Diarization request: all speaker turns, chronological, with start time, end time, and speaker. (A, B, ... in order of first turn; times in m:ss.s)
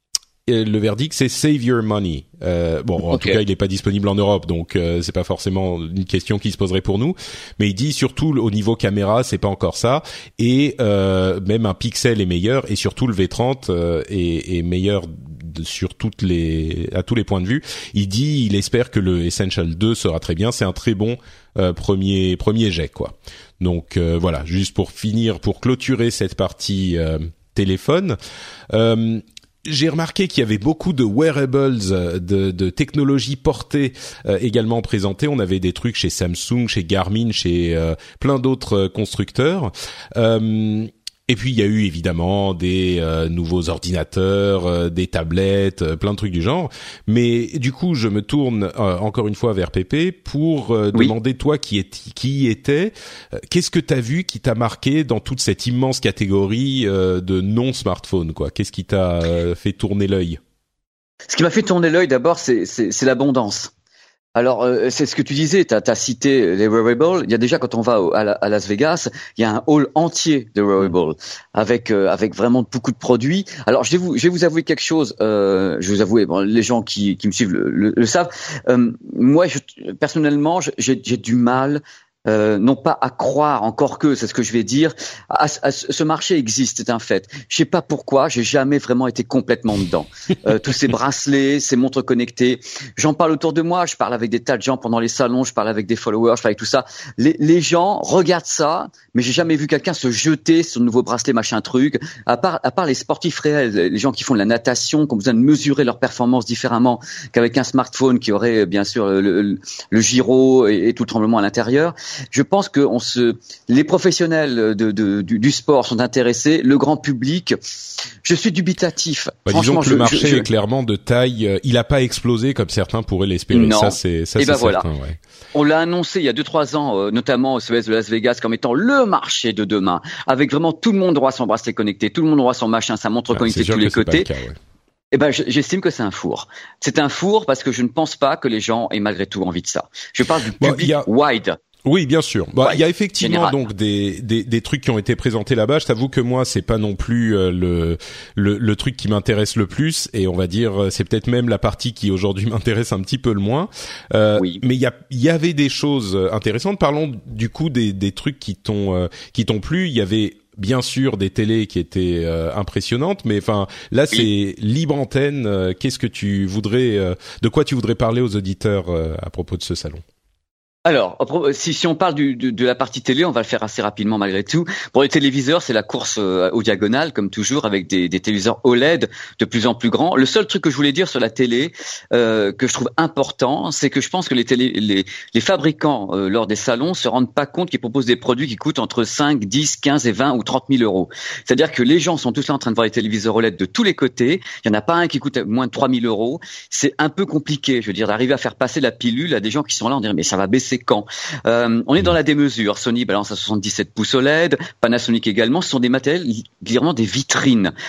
0:00.5-0:28.2 A
0:03.1-0:03.4 B
0:28.7-1:00.4 A
1:01.3-1:03.7 B
1:04.4-1:57.6 B
1:58.2-2:00.5 B
1:59.5-2:05.2 A
2:03.5-2:04.8 B
2:05.5-2:14.3 B
2:13.3-2:14.6 A
2:15.1-2:21.6 B
2:20.6-2:21.1 A
2:21.8-2:50.0 A
2:22.6-2:23.6 B
2:34.4-2:34.6 B
2:50.9-3:27.7 B